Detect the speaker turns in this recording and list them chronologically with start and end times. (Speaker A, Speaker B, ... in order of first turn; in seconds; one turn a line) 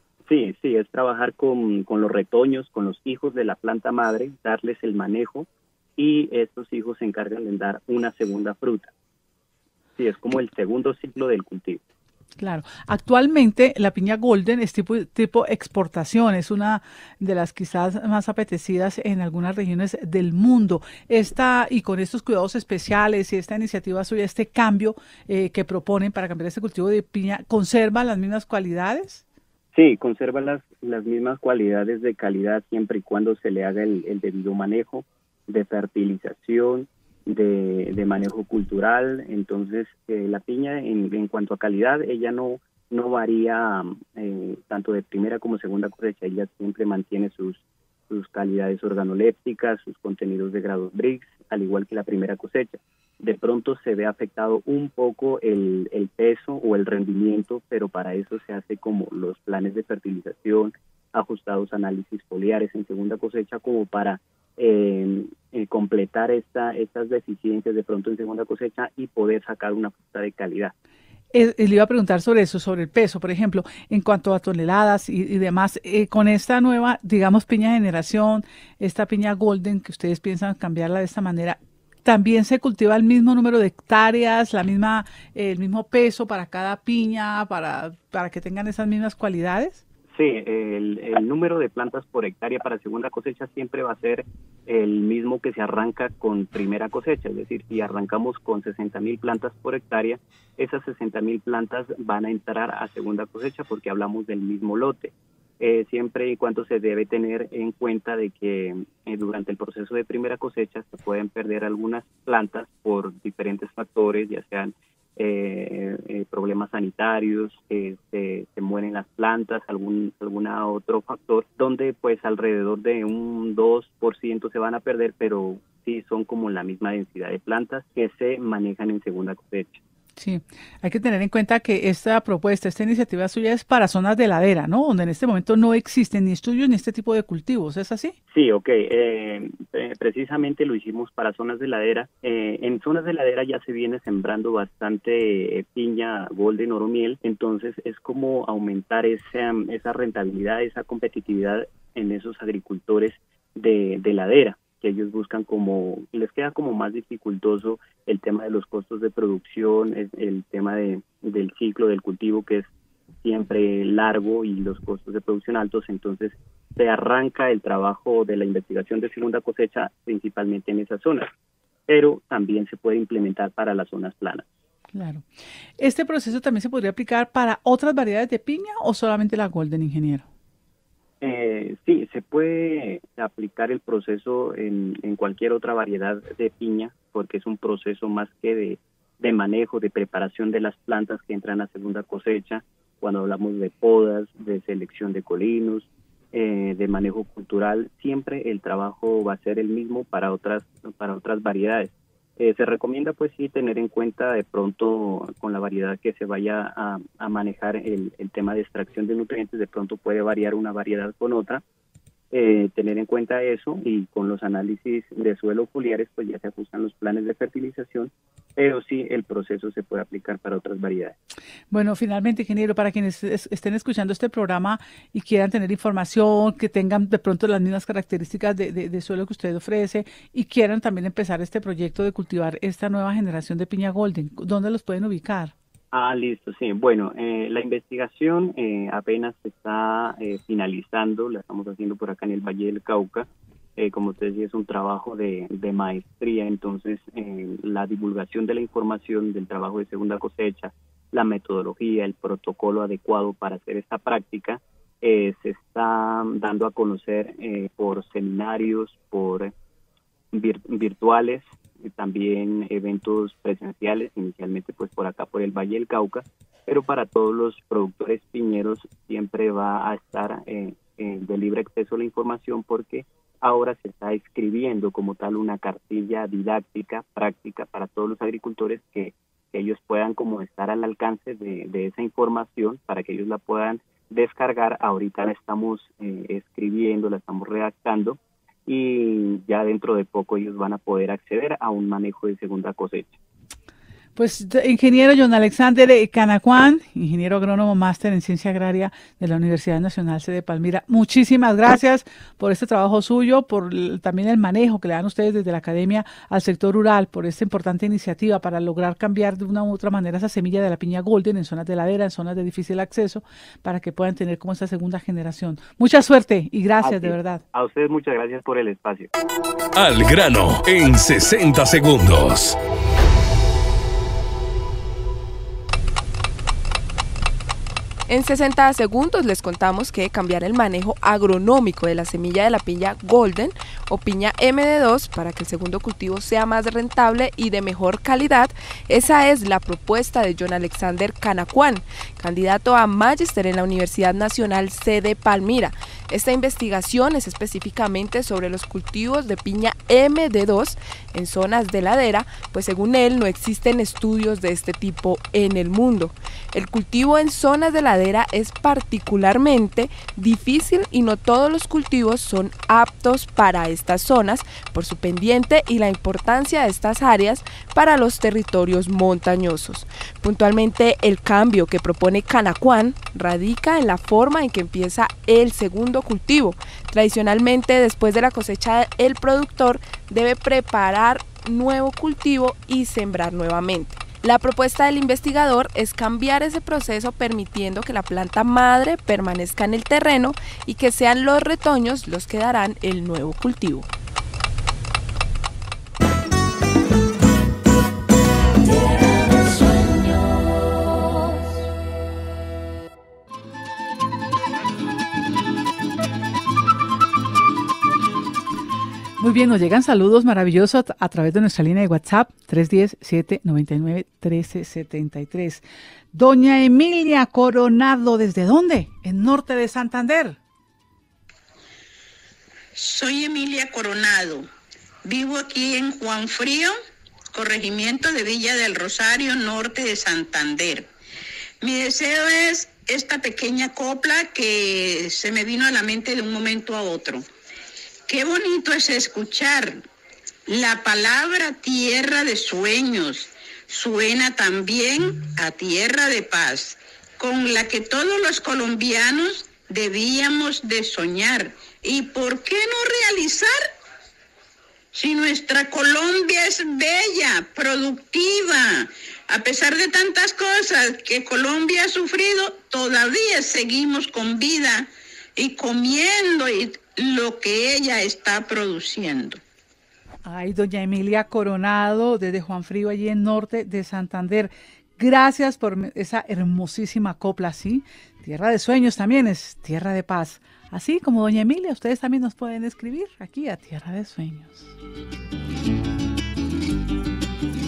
Speaker A: 0.3-8.9
Speaker A: 10.0-11.8
Speaker B: 12.4-29.2
Speaker A: 29.7-70.7
Speaker B: 71.3-89.8
Speaker A: 90.1-129.8
Speaker B: 130.2-138.1
Speaker A: 138.3-162.7
Speaker A: 163.2-171.3
Speaker A: 171.9-174.4
Speaker B: 174.9-175.3
Speaker B: 175.8-180.3
Speaker A: 181.2-211.6
Speaker A: 212.3-221.2
Speaker B: 221.7-235.5
Speaker A: 235.9-259.5
Speaker A: 260.3-293.2
Speaker B: 294.1-317.4
Speaker A: 316.8-319.1
Speaker C: 319.8-322.6
Speaker D: 328.1-393.9
Speaker D: 398.7-400.4
Speaker B: 409.2-420.4
Speaker E: 422.8-424.4
Speaker E: 425.0-426.7
Speaker E: 427.3-430.9
Speaker E: 431.6-437.2
Speaker E: 438.1-439.8
Speaker E: 440.5-453.6
Speaker E: 454.9-469.4
Speaker B: 470.2-484.7